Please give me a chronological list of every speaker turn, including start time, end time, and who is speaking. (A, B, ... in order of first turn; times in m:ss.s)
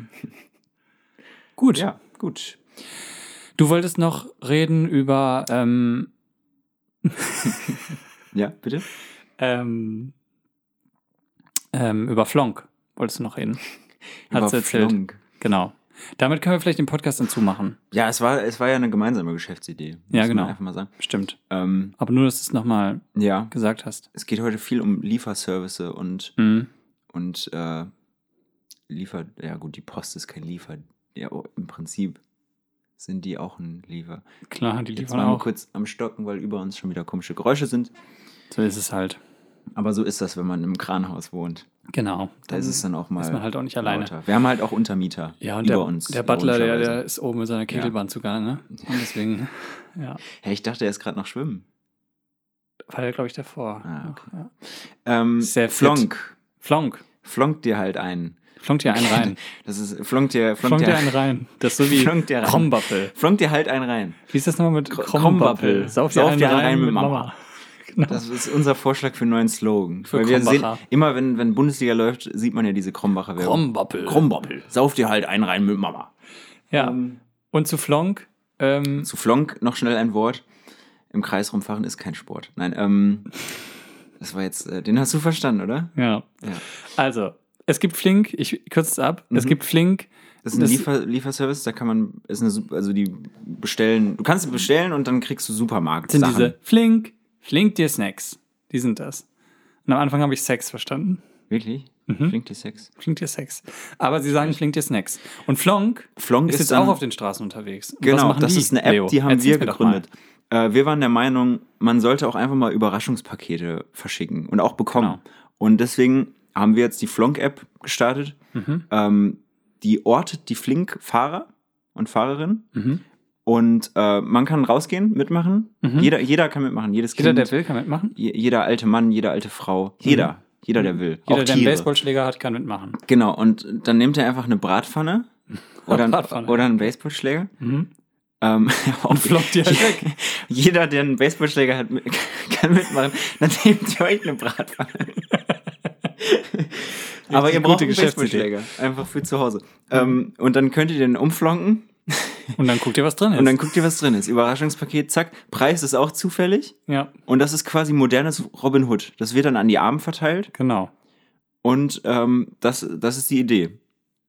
0:01.6-0:01.8 A
0:01.7-0:02.6 B
0:03.6-0:06.1 A
0:07.0-0:07.9 A
0:08.3-0:08.9 B
0:09.4-0:10.1 A
0:11.7-0:13.6 A
0:14.3-0:15.2 B
0:14.3-0:17.8 A
0:17.9-0:20.9 B
0:20.1-0:21.4 A
0:21.5-0:21.9 B
0:22.0-0:24.0 A
0:23.1-0:23.5 B
0:24.1-0:26.4 B
0:26.4-0:26.7 A
0:27.1-0:27.9 B
0:28.9-0:32.2 B
0:33.0-0:34.2 B
0:34.5-0:35.5 A
0:34.9-0:37.9 B
0:38.5-0:39.2 A
0:39.7-0:41.7 B
0:41.9-0:44.1 A
0:42.5-0:47.0 B
0:45.4-0:50.2 A
0:50.3-0:51.6 B
0:52.9-0:54.5 A
0:53.8-0:56.3 B
0:55.4-0:57.0 A
0:57.2-1:04.2 B
0:58.6-0:59.4 A
1:00.6-1:03.1 A
1:04.3-1:08.2 A
1:04.9-1:07.3 B
1:08.1-1:16.1 B
1:10.1-1:10.8 A
1:13.4-1:14.3 A
1:16.7-1:17.0 A
1:16.7-1:17.2 B
1:17.5-1:19.1 A
1:19.0-1:20.4 B
1:21.1-1:23.4 B
1:24.2-1:26.6 B
1:26.0-1:30.8 A
1:29.3-1:29.6 B
1:30.4-1:36.6 B
1:36.1-1:39.2 A
1:39.8-1:41.2 A
1:41.5-1:42.9 B
1:42.1-1:42.4 A
1:43.0-1:50.0 A
1:46.2-1:47.0 B
1:48.0-1:58.4 B
1:54.9-1:55.2 A
1:58.5-1:58.8 A
1:58.9-2:02.7 B
2:02.7-2:03.0 A
2:03.4-2:07.5 B
2:05.8-2:06.1 A
2:07.1-2:08.2 A
2:08.1-2:11.9 B
2:10.0-2:13.0 A
2:13.0-2:15.3 B
2:15.8-2:17.5 B
2:15.8-2:16.6 A
2:17.6-2:17.9 A
2:18.4-2:25.3 B
2:19.1-2:20.1 A
2:26.2-2:32.6 B
2:27.3-2:28.5 A
2:32.6-2:33.6 A
2:33.3-2:40.5 B
2:36.9-2:37.1 A
2:40.5-2:40.9 A
2:41.6-2:43.8 B